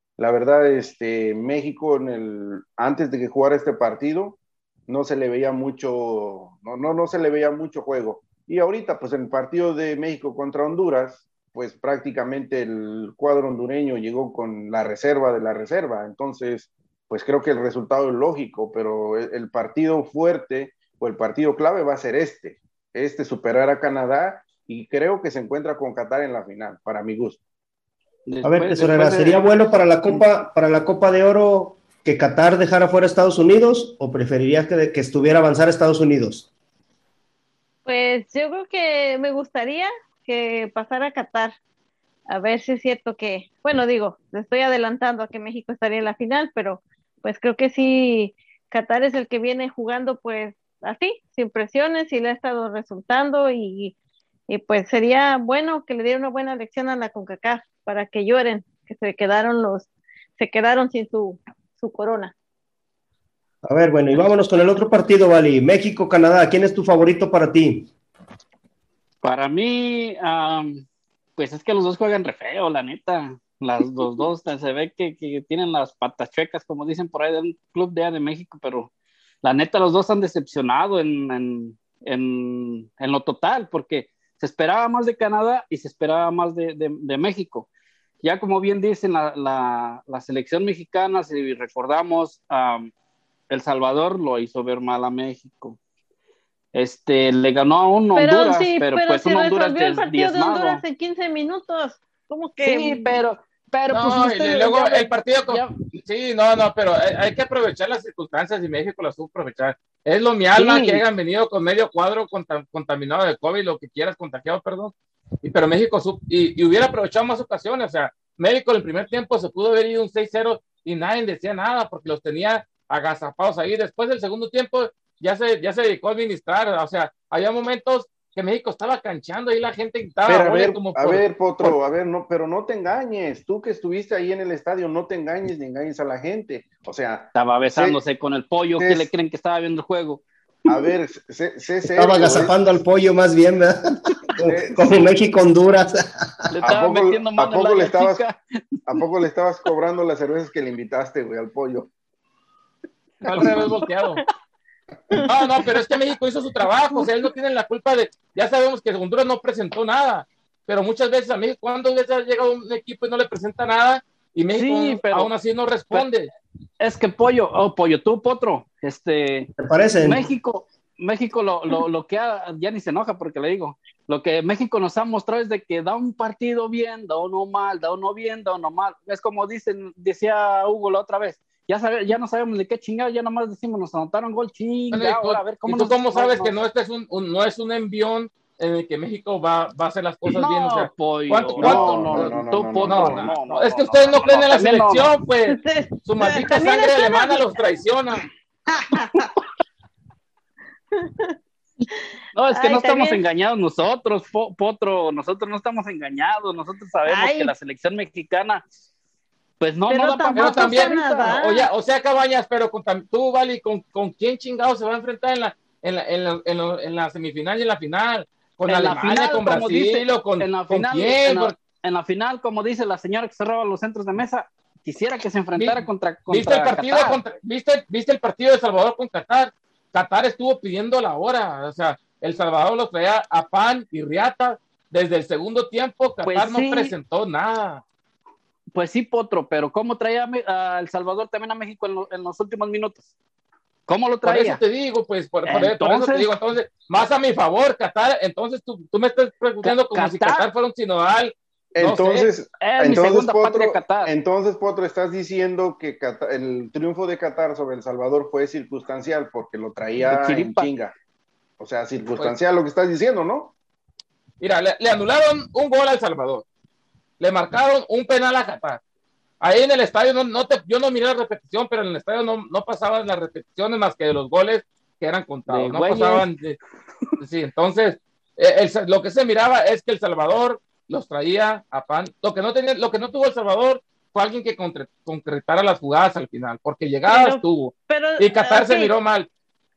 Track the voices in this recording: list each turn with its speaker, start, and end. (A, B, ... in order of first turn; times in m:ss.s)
0:00.2-0:27.4 A
0:28.3-0:29.4 B
0:28.4-0:36.5 C
0:37.8-0:41.5 D
0:42.3-0:54.0 D
0:54.5-1:02.3 D
1:03.6-1:07.9 C
1:09.2-1:10.8 B
1:11.4-1:18.9 B
1:19.4-1:27.7 B
1:28.2-1:32.9 B
1:33.5-1:35.8 B
1:36.7-1:40.8 B
1:38.1-1:43.2 D
1:42.6-1:45.7 B
1:43.9-2:11.7 E
1:50.6-1:51.0 B
2:10.2-2:18.0 A
2:17.3-2:20.2 B
2:18.8-2:19.1 A
2:20.7-2:22.5 A
2:22.0-2:26.4 C
2:24.4-2:25.0 A
2:26.5-2:28.6 B
2:26.6-2:28.2 A
2:28.9-2:31.9 A
2:33.2-2:34.2 E
2:35.3-2:46.3 E
2:44.5-2:45.3 B
2:46.8-2:49.5 B
2:49.6-2:50.2 C
2:50.0-3:06.5 B
3:04.9-3:18.2 E
3:10.3-3:15.1 B
3:11.6-3:13.3 A
3:15.5-3:17.6 D
3:18.7-3:19.3 D
3:21.0-3:21.3 D
3:22.3-3:28.6 B
3:22.5-3:23.2 D
3:27.0-3:27.5 D
3:29.6-3:31.4 B
3:29.9-3:31.7 D
3:30.3-3:41.5 E
3:38.7-3:47.2 B
3:45.6-3:57.8 E
3:56.2-3:56.9 B
3:58.7-4:03.1 B
4:03.9-4:04.6 B
4:04.2-4:12.3 E
4:05.4-4:06.3 B
4:09.6-4:10.5 B
4:11.7-4:20.9 A
4:12.6-4:14.1 B
4:20.0-4:20.7 B
4:21.6-4:23.5 A
4:24.4-4:26.4 E
4:27.2-4:28.8 E
4:29.4-4:36.6 E
4:35.5-4:36.2 B
4:37.2-4:49.3 E
4:47.1-4:48.9 D